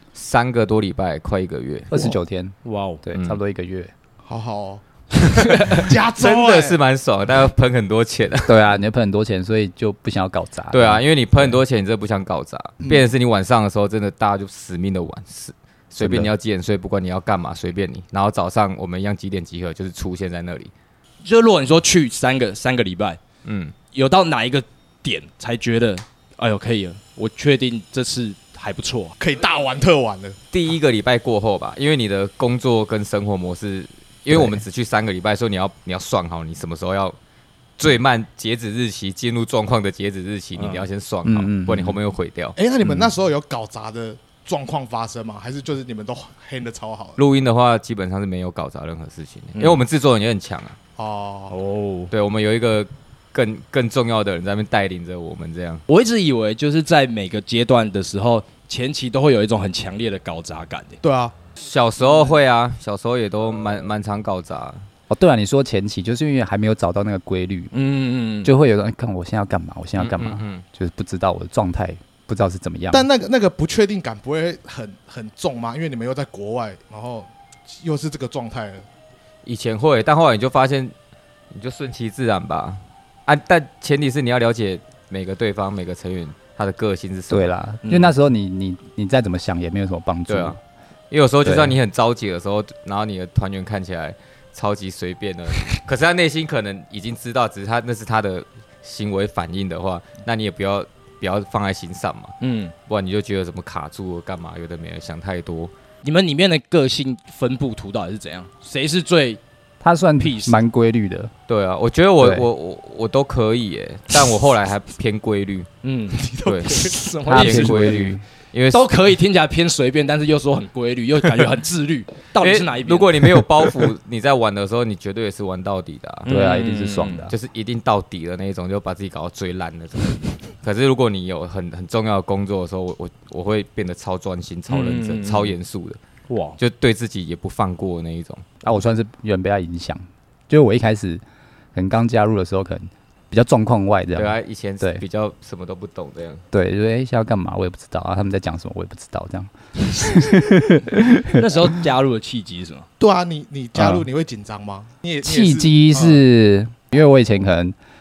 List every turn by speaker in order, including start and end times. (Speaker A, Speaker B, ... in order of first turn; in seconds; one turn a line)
Speaker A: 0.1-1.9
Speaker B: 1.9-3.9
Speaker C: 2.6-3.0
Speaker A: 3.1-3.4
Speaker D: 4.3-4.8
Speaker D: 5.4-6.8
Speaker A: 5.7-8.6
Speaker B: 8.5-11.6
Speaker A: 10.7-20.7
Speaker B: 16.0-16.3
Speaker C: 21.2-23.2
Speaker A: 23.4-23.8
Speaker C: 23.9-29.2
Speaker D: 29.2-30.4
Speaker A: 30.5-37.2
Speaker B: 34.3-34.6
Speaker A: 37.8-42.6
Speaker C: 40.6-40.9
Speaker B: 41.2-42.0
Speaker D: 42.6-47.2
Speaker A: 47.2-50.8
Speaker D: 51.0-51.6
Speaker C: 51.5-52.1
Speaker A: 52.1-55.8
Speaker C: 55.9-61.0
Speaker D: 61.0-61.3
Speaker A: 61.6-64.8
Speaker B: 65.1-67.7
Speaker C: 67.7-68.5
Speaker B: 68.4-73.1
Speaker A: 70.0-70.6
Speaker D: 72.9-78.9
Speaker A: 79.5-80.9
Speaker A: 81.5-87.5
Speaker B: 87.3-90.6
Speaker C: 87.8-88.1
Speaker A: 90.3-90.6
Speaker A: 91.1-102.3
Speaker B: 91.4-91.8
Speaker C: 102.4-102.7
Speaker A: 102.9-105.7
Speaker C: 106.0-109.4
Speaker B: 109.8-111.3
Speaker C: 110.2-110.6
Speaker A: 111.5-115.7
Speaker B: 112.2-112.5
Speaker C: 115.8-118.0
Speaker D: 116.2-117.0
Speaker A: 116.4-118.9
Speaker B: 117.3-118.2
Speaker C: 118.7-123.2
Speaker A: 122.4-126.3
Speaker C: 126.3-127.3
Speaker B: 126.3-127.3
Speaker A: 127.3-136.0
Speaker C: 134.7-135.5
Speaker C: 136.3-136.6
Speaker A: 136.6-138.5
Speaker B: 138.6-141.2
Speaker B: 141.7-145.0
Speaker A: 144.2-146.4
Speaker B: 146.5-151.4
Speaker C: 151.3-152.9
Speaker D: 153.0-156.2
Speaker B: 153.8-154.1
Speaker B: 155.2-157.8